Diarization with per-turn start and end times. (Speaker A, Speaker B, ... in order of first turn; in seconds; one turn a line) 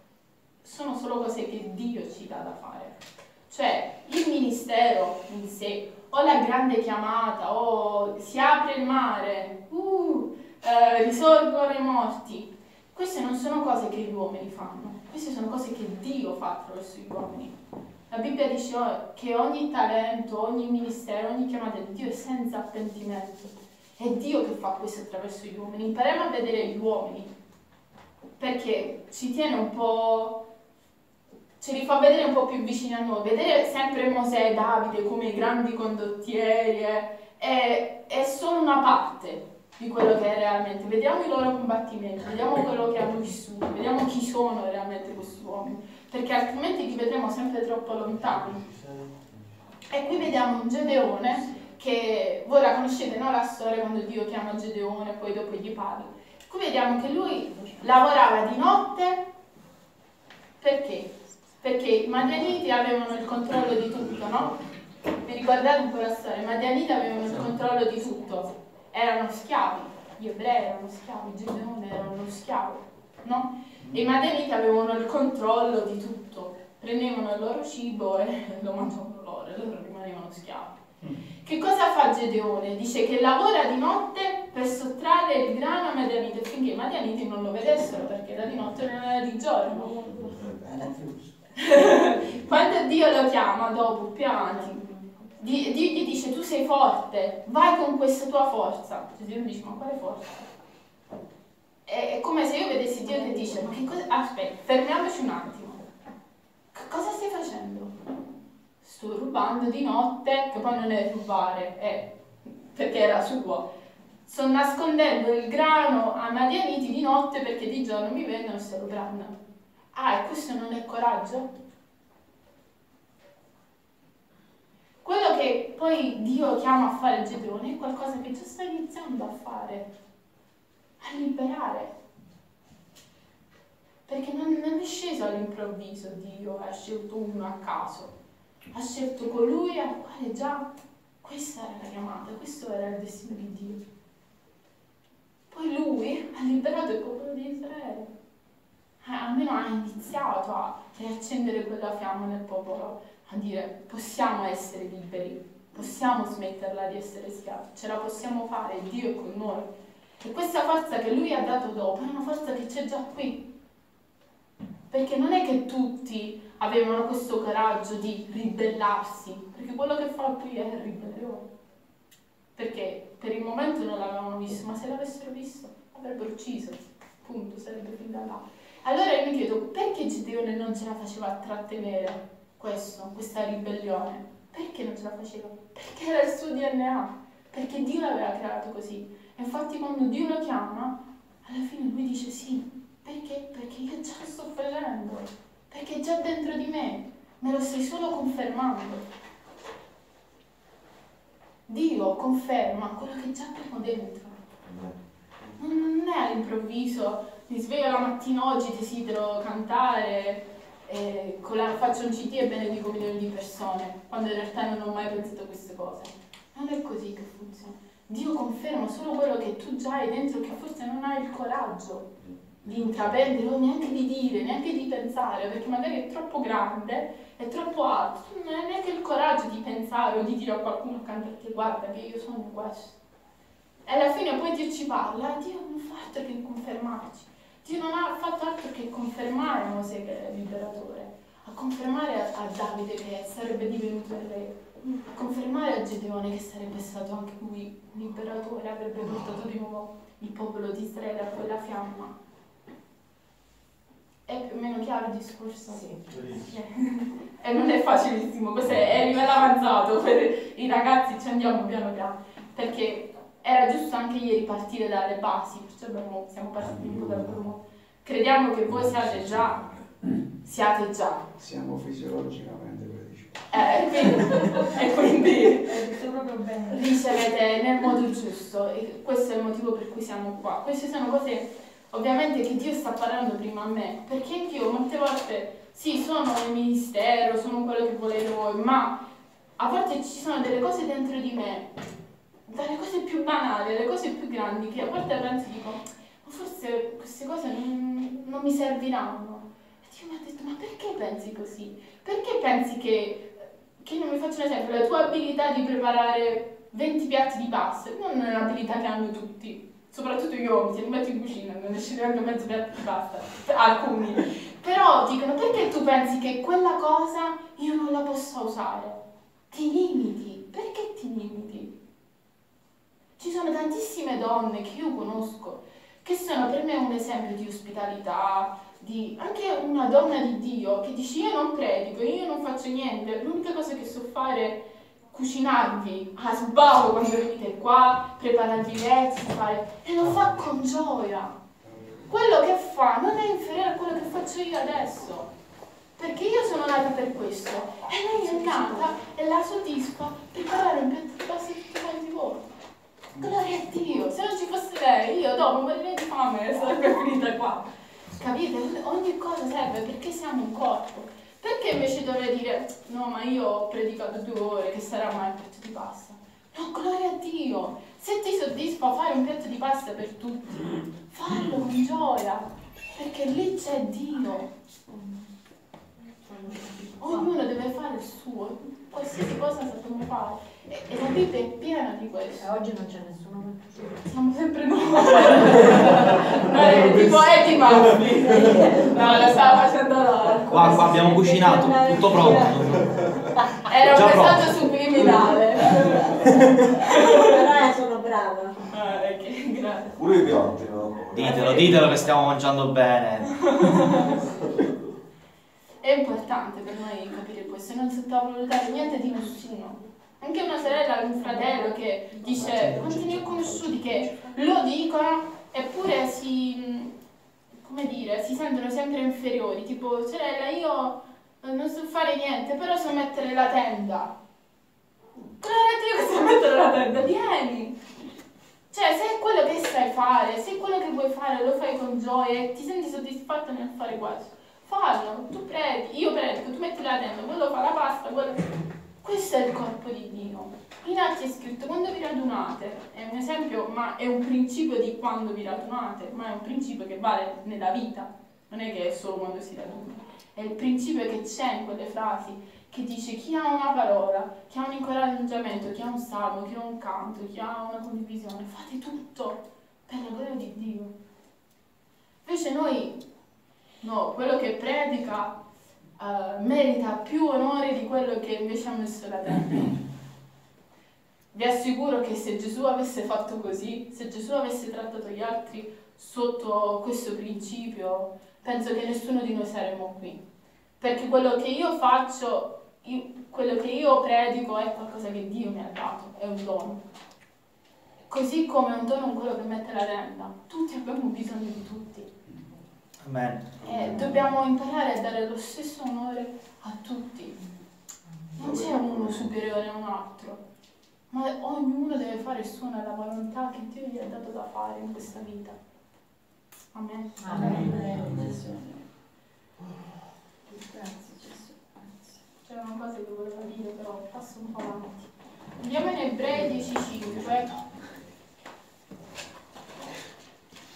Speaker A: 0.6-17.5
Speaker A: 18.1-27.3
Speaker A: 28.4-30.4
Speaker A: 31.6-48.6
Speaker B: 48.1-50.1
Speaker A: 49.9-59.2
Speaker A: 60.6-64.5
Speaker A: 65.2-80.8
Speaker A: 81.4-90.1
Speaker C: 89.7-90.9
Speaker B: 90.3-92.2
Speaker A: 91.5-94.8
Speaker C: 94.5-95.3
Speaker A: 95.4-100.5
Speaker A: 101.8-105.8
Speaker C: 103.1-103.7
Speaker A: 106.7-107.9
Speaker A: 108.8-113.7
Speaker A: 114.3-119.4
Speaker A: 119.9-121.5
Speaker A: 125.0-129.9
Speaker A: 131.0-131.9
Speaker A: 134.1-138.1
Speaker A: 138.7-140.7
Speaker A: 141.2-143.8
Speaker A: 145.5-148.1
Speaker A: 149.0-163.5
Speaker A: 164.9-171.5
Speaker A: 172.6-199.1
Speaker A: 201.7-204.4
Speaker B: 204.6-205.5
Speaker A: 205.6-233.0
Speaker A: 233.8-252.1
Speaker A: 254.3-269.7
Speaker C: 255.7-256.0
Speaker B: 256.0-256.6
Speaker B: 266.7-267.2
Speaker B: 268.7-269.8
Speaker A: 270.4-271.3
Speaker B: 271.3-273.6
Speaker A: 273.5-275.8
Speaker C: 274.2-274.7
Speaker C: 275.6-276.9
Speaker A: 276.7-289.0
Speaker A: 289.6-291.7
Speaker A: 292.5-321.8
Speaker A: 323.2-341.4
Speaker B: 341.6-342.0
Speaker A: 342.1-345.3
Speaker A: 346.0-352.5
Speaker C: 348.2-348.9
Speaker A: 353.2-374.5
Speaker C: 374.9-375.3
Speaker C: 376.0-377.3
Speaker A: 377.0-382.7
Speaker C: 382.4-384.1
Speaker A: 384.0-391.1
Speaker C: 385.5-386.4
Speaker C: 387.9-389.7
Speaker C: 390.2-393.6
Speaker D: 390.5-393.0
Speaker A: 393.6-396.3
Speaker D: 393.8-394.7
Speaker C: 395.6-398.7
Speaker A: 396.8-397.4
Speaker A: 398.7-400.0
Speaker B: 400.0-401.6
Speaker D: 401.1-403.5
Speaker A: 401.2-402.0
Speaker A: 403.4-404.2
Speaker A: 405.8-416.9
Speaker B: 412.3-414.1
Speaker A: 417.6-424.1
Speaker A: 425.4-427.8
Speaker A: 428.7-438.4
Speaker A: 439.0-460.9
Speaker A: 462.2-463.0
Speaker A: 463.8-465.4
Speaker A: 466.0-469.8
Speaker A: 471.3-480.2
Speaker A: 480.8-486.8
Speaker A: 488.1-492.1
Speaker D: 493.0-493.6
Speaker A: 493.6-497.4
Speaker B: 493.6-494.2
Speaker A: 498.3-500.4
Speaker B: 498.4-499.1
Speaker A: 501.1-505.6
Speaker A: 506.7-508.7
Speaker C: 507.2-508.6
Speaker C: 510.5-512.1
Speaker A: 512.5-517.6